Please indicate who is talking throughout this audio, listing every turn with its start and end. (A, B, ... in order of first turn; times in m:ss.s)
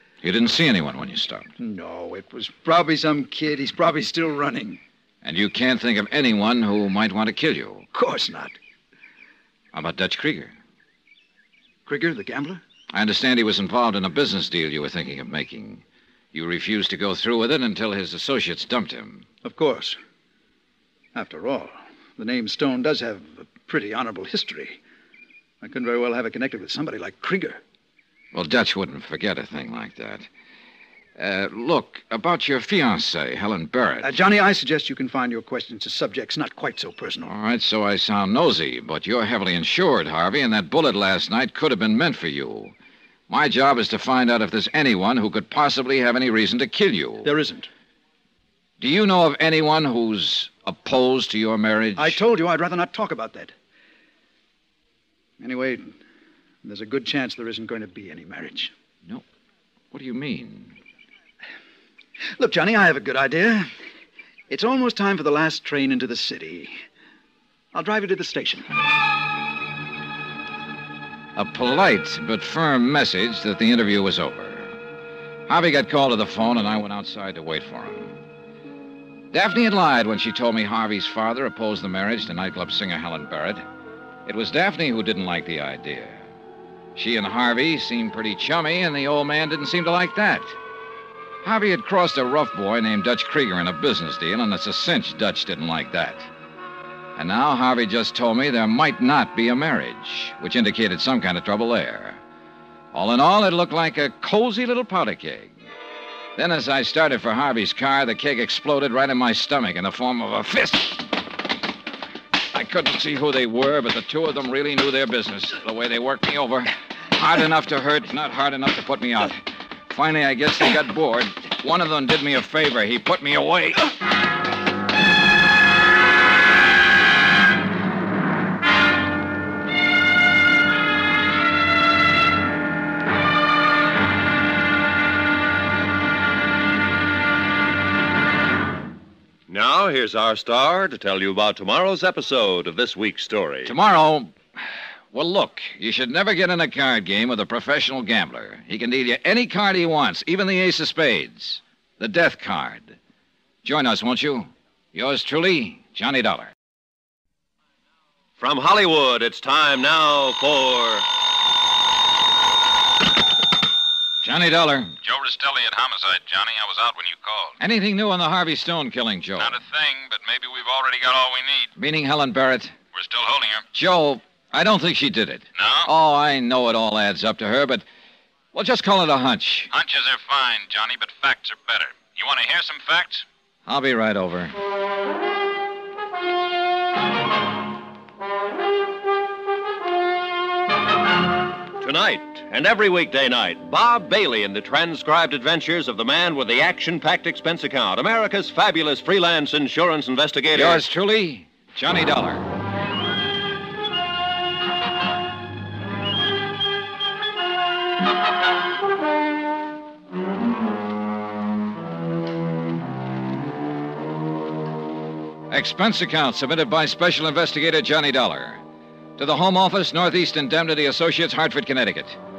0:00.2-0:01.5 A
0:01.6-0:04.8 B
0:05.2-0:07.9 A
0:07.9-0:08.6 B
0:09.7-0:10.5 A
0:11.9-0:12.6 B
0:12.9-0:19.3 A
0:19.4-0:20.0 B
0:21.2-0:24.8 B
0:25.6-0:27.6 B
0:28.3-0:30.3 A
0:31.2-0:34.2 A
0:34.0-0:37.3 B
0:37.2-0:42.8 A
0:43.3-0:47.3 A
0:47.2-0:47.7 B
0:48.8-0:52.2 A
0:52.0-0:53.5 B
0:55.4-0:56.0 B
0:56.6-0:58.7 B
0:59.9-1:00.8 A
1:02.4-1:03.7 B
1:04.5-1:06.8 B
1:07.7-1:08.7 B
1:11.4-1:14.8 A
1:15.5-1:18.2 A
1:19.3-1:23.6 A
1:24.2-1:26.3 A
1:27.0-1:30.6 A
1:31.4-1:36.3 A
1:37.2-1:42.2 A
1:42.9-1:45.6 A
1:46.4-1:51.2 A
1:52.5-2:03.9 A
2:19.5-2:23.7 C
2:23.6-2:24.4 A
2:25.1-2:33.0 A
2:33.6-2:36.5 A
2:38.4-2:41.1 C
2:44.2-2:45.0 A
2:45.0-2:47.6 D
2:47.6-2:49.6 A
2:49.4-2:51.7 D
2:51.8-2:52.8 A
2:52.9-2:53.7 D
2:53.7-2:57.9 A
2:55.6-2:55.9 D
2:58.5-2:59.7 A
2:59.7-3:03.2 D
3:03.7-3:04.6 A
3:11.8-3:20.8 C
3:20.5-3:22.5 A
3:35.5-3:38.6 A
3:39.2-3:42.2 A